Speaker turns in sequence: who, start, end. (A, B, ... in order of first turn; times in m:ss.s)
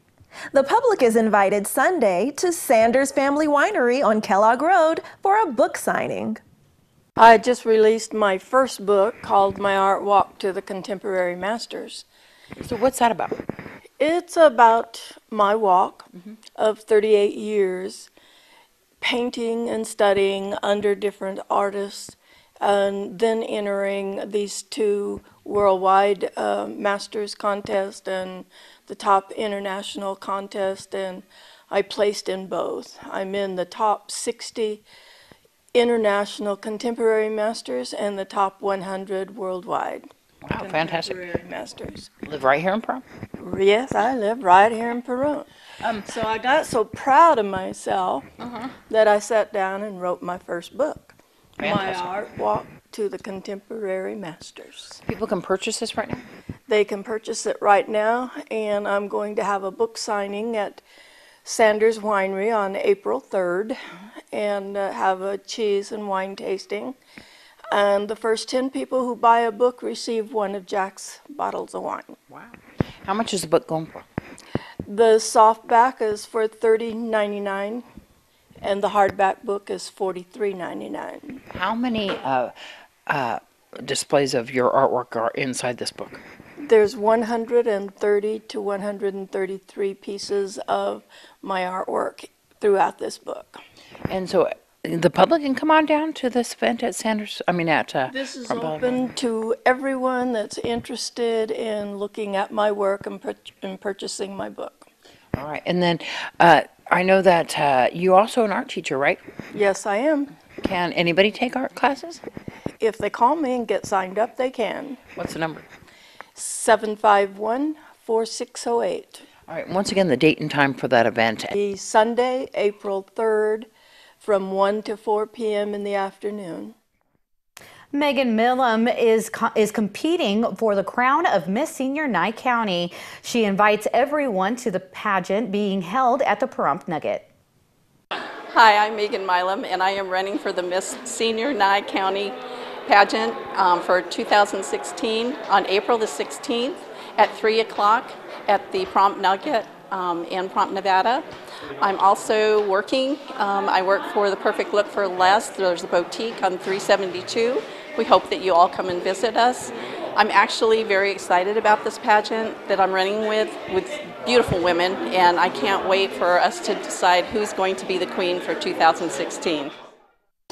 0:00.5-0:06.4 A
0:07.2-0:12.0 B
0:12.6-0:13.4 C
0:14.0-0:18.1 B
0:19.0-0:34.8 B
0:35.7-0:42.1 B
0:40.4-0:41.2 C
0:42.2-0:43.0 C
0:43.4-0:45.5 B
0:45.8-0:46.1 C
0:46.0-0:48.2 B
0:48.9-0:55.0 B
0:51.6-0:52.1 C
0:55.0-0:56.2 C
0:56.7-1:00.8 B
1:01.4-1:03.8 B
1:04.3-1:07.0 B
1:07.7-1:12.2 B
1:13.0-1:14.0 C
1:14.8-1:17.8 B
1:18.6-1:21.4 B
1:21.5-1:22.5 C
1:23.1-1:26.2 C
1:26.6-1:33.6 B
1:34.1-1:39.1 C
1:38.1-1:44.9 B
1:45.4-1:49.2 C
1:49.5-1:50.3 B
1:50.6-1:52.2 C
1:52.8-1:55.0 B
1:55.2-1:55.6 C
1:56.3-1:59.2 B
1:59.5-2:01.5 C
2:01.5-2:03.7 B
2:04.2-2:06.7 B
2:07.9-2:17.3 D
2:18.5-2:31.3 E
2:31.8-2:49.7 E